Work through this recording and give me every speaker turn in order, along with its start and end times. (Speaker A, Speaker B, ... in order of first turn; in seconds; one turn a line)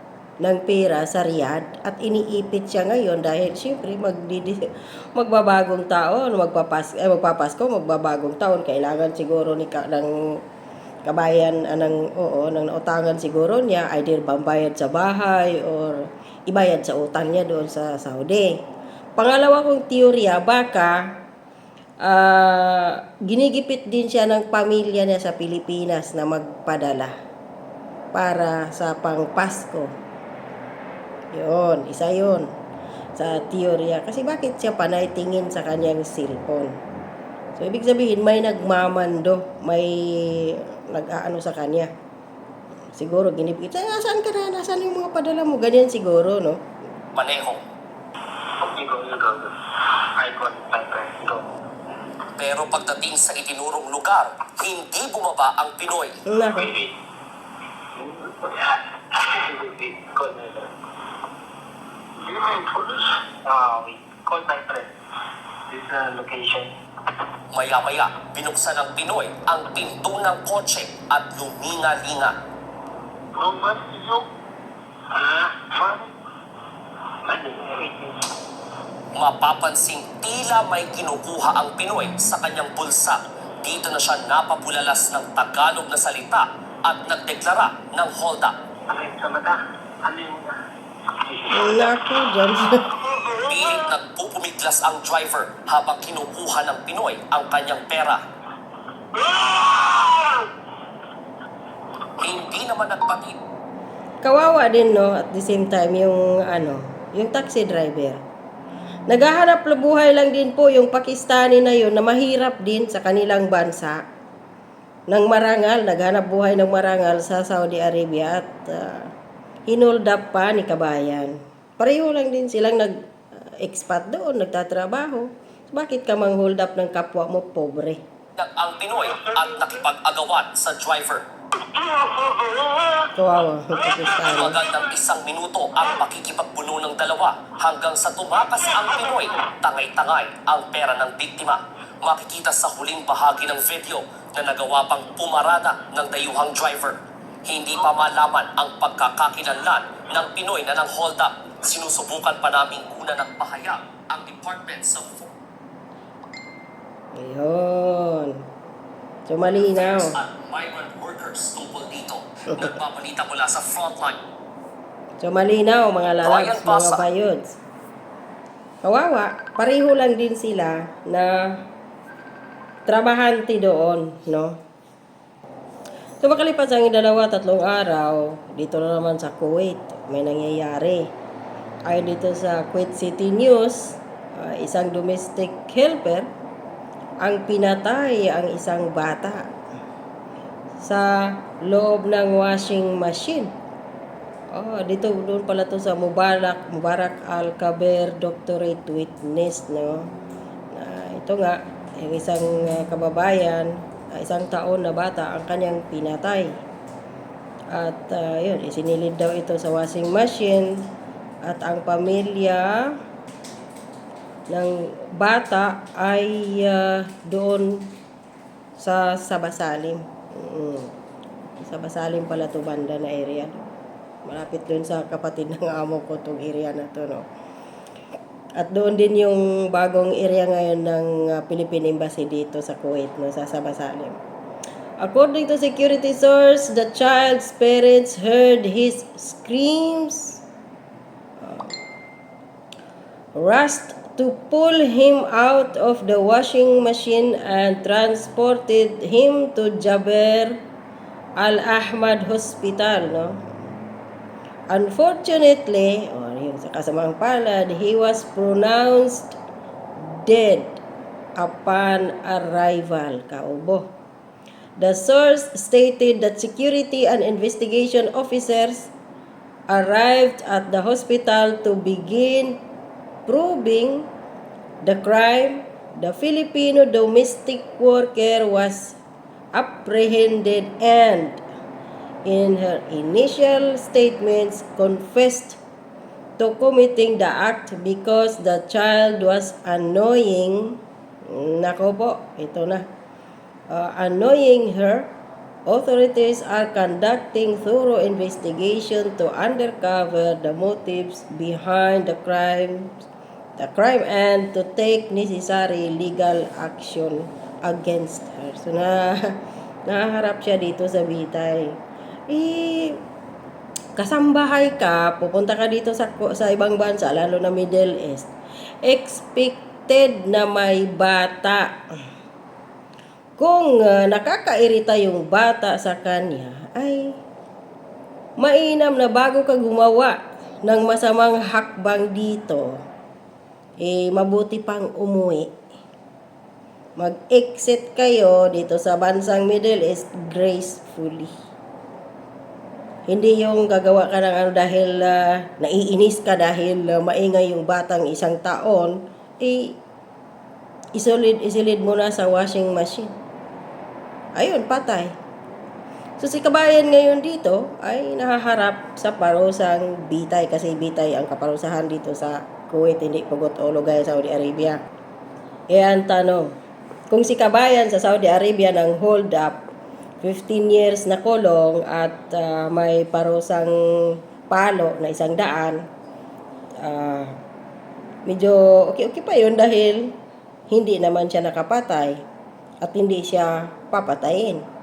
Speaker A: 0.4-10.1
Speaker A: 11.1-18.6
Speaker A: 19.2-21.0
Speaker A: 22.0-27.1
Speaker A: 28.1-29.9
Speaker A: 31.3-32.5
Speaker A: 33.2-36.7
Speaker A: 37.6-41.9
Speaker A: 43.0-46.6
Speaker B: 47.1-47.6
Speaker C: 48.5-51.5
Speaker B: 52.4-56.2
Speaker A: 56.3-56.8
Speaker C: 56.6-57.0
Speaker C: 57.9-60.7
Speaker C: 62.2-64.9
Speaker C: 65.7-66.7
Speaker B: 67.5-72.3
Speaker C: 73.3-74.3
Speaker C: 75.1-76.1
Speaker C: 77.2-78.2
Speaker B: 79.2-88.5
Speaker C: 88.9-90.6
Speaker C: 91.1-91.6
Speaker A: 91.5-93.0
Speaker C: 93.1-93.5
Speaker B: 93.5-98.2
Speaker C: 99.1-100.5
Speaker B: 102.2-103.4
Speaker A: 104.2-108.2
Speaker A: 109.1-114.0
Speaker A: 115.1-119.1
Speaker A: 119.7-128.0
Speaker B: 128.4-131.2
Speaker C: 131.7-133.1
Speaker A: 133.1-134.6
Speaker B: 134.2-155.3
Speaker A: 157.1-158.4
Speaker A: 159.3-160.2
Speaker B: 159.6-164.2
Speaker A: 165.2-167.6
Speaker B: 166.2-167.0
Speaker A: 168.8-171.3
Speaker A: 172.9-174.6
Speaker A: 176.2-181.1
Speaker A: 181.9-186.3
Speaker A: 187.2-189.5
Speaker A: 190.8-193.5
Speaker A: 194.5-200.1
Speaker A: 200.7-206.5
Speaker A: 207.7-210.9
Speaker A: 211.4-212.7
Speaker A: 214.5-217.9
Speaker A: 218.8-220.9
Speaker A: 221.6-223.7
Speaker A: 224.3-227.2
Speaker A: 228.6-234.2
Speaker A: 235.0-240.4
Speaker A: 241.4-241.8
Speaker A: 243.3-250.6
Speaker A: 251.4-253.4
Speaker A: 254.7-259.4
Speaker A: 260.0-260.8
Speaker A: 261.4-263.9
Speaker A: 264.8-268.9
Speaker A: 269.7-272.6
Speaker A: 273.3-274.1
Speaker A: 274.8-279.0
Speaker A: 279.5-281.4
Speaker A: 282.3-285.6
Speaker A: 286.4-290.8
Speaker A: 291.3-292.9
Speaker A: 293.7-295.1
Speaker A: 295.7-302.9
Speaker A: 303.6-311.8
Speaker A: 312.3-313.0
Speaker A: 314.0-318.3
Speaker A: 318.8-321.7
Speaker A: 323.4-327.1
Speaker A: 328.4-332.7
Speaker A: 333.8-335.5
Speaker A: 337.0-341.3
Speaker A: 343.1-349.8
Speaker A: 350.9-353.1
Speaker A: 354.4-355.1
Speaker A: 356.2-364.8
Speaker A: 365.7-366.5
Speaker A: 367.1-369.6
Speaker A: 370.2-375.8
Speaker A: 376.8-377.3
Speaker A: 378.3-380.1
Speaker A: 380.7-382.2
Speaker A: 382.8-384.6